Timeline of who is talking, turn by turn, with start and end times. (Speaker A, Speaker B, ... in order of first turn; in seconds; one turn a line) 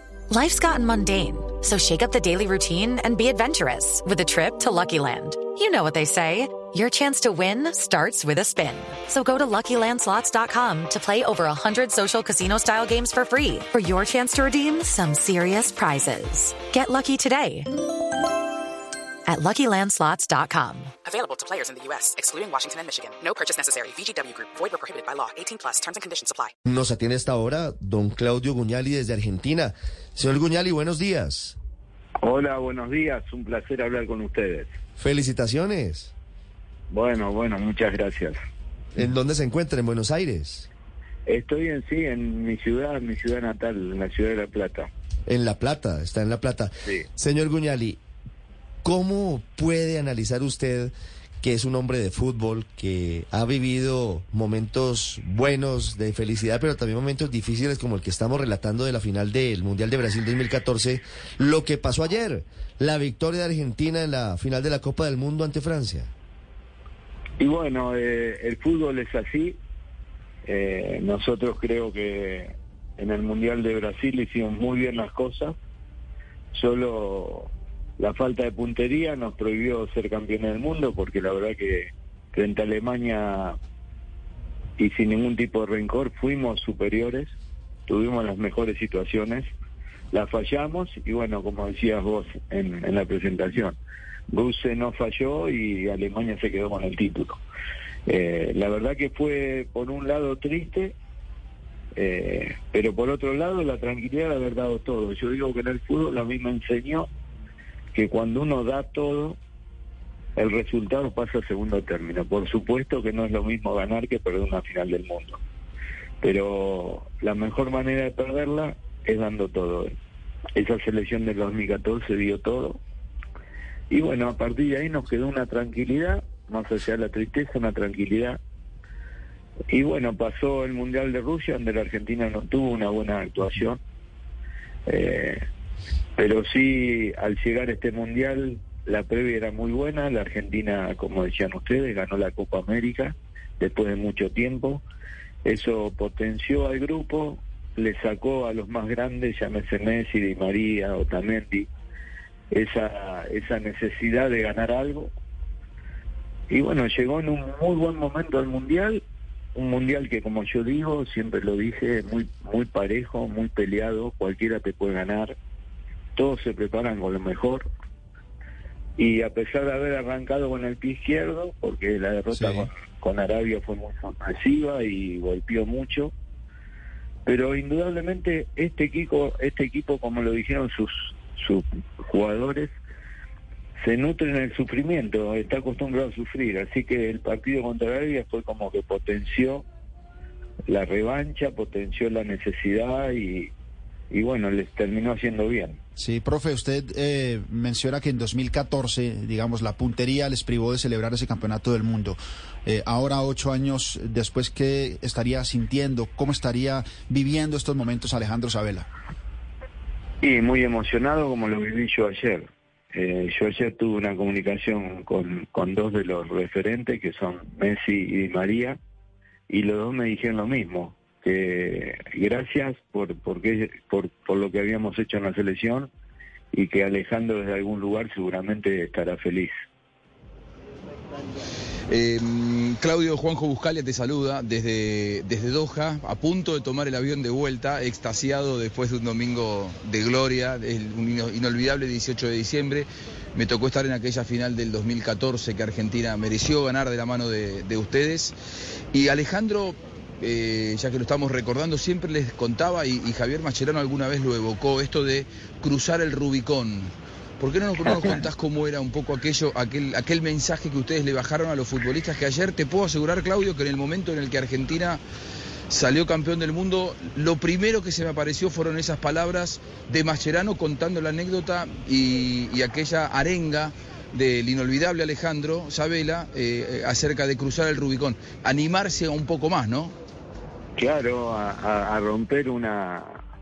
Speaker A: 0.3-17.7
Speaker A: 19.3-20.9
Speaker B: 21.0-26.5
Speaker C: 26.6-31.6
Speaker D: 32.2-34.7
Speaker C: 35.0-36.1
Speaker D: 36.9-38.3
Speaker C: 38.9-40.7
Speaker D: 41.2-44.9
Speaker C: 45.3-48.0
Speaker C: 48.8-66.1
Speaker D: 67.4-69.6
Speaker D: 70.4-75.5
Speaker D: 76.5-83.6
Speaker D: 84.8-87.3
Speaker D: 87.9-89.5
Speaker D: 90.1-93.8
Speaker D: 94.3-97.4
Speaker D: 98.0-100.9
Speaker D: 101.9-107.1
Speaker D: 107.9-109.4
Speaker D: 110.3-115.4
Speaker D: 116.2-119.9
Speaker D: 120.5-122.8
Speaker D: 123.9-128.4
Speaker D: 129.7-133.8
Speaker D: 134.9-135.4
Speaker D: 136.2-144.8
Speaker D: 145.4-151.7
Speaker D: 152.5-155.1
Speaker D: 156.5-159.0
Speaker D: 159.5-165.3
Speaker D: 166.2-167.7
Speaker D: 169.0-176.1
Speaker E: 172.3-172.7
Speaker D: 177.2-182.8
Speaker D: 183.8-189.6
Speaker D: 190.7-193.5
Speaker D: 194.1-195.8
Speaker E: 196.0-208.9
Speaker D: 210.2-218.8
Speaker D: 219.5-225.9
Speaker D: 226.5-229.5
Speaker F: 231.9-248.3
Speaker F: 248.9-265.0
Speaker F: 265.7-279.9
Speaker D: 280.8-283.2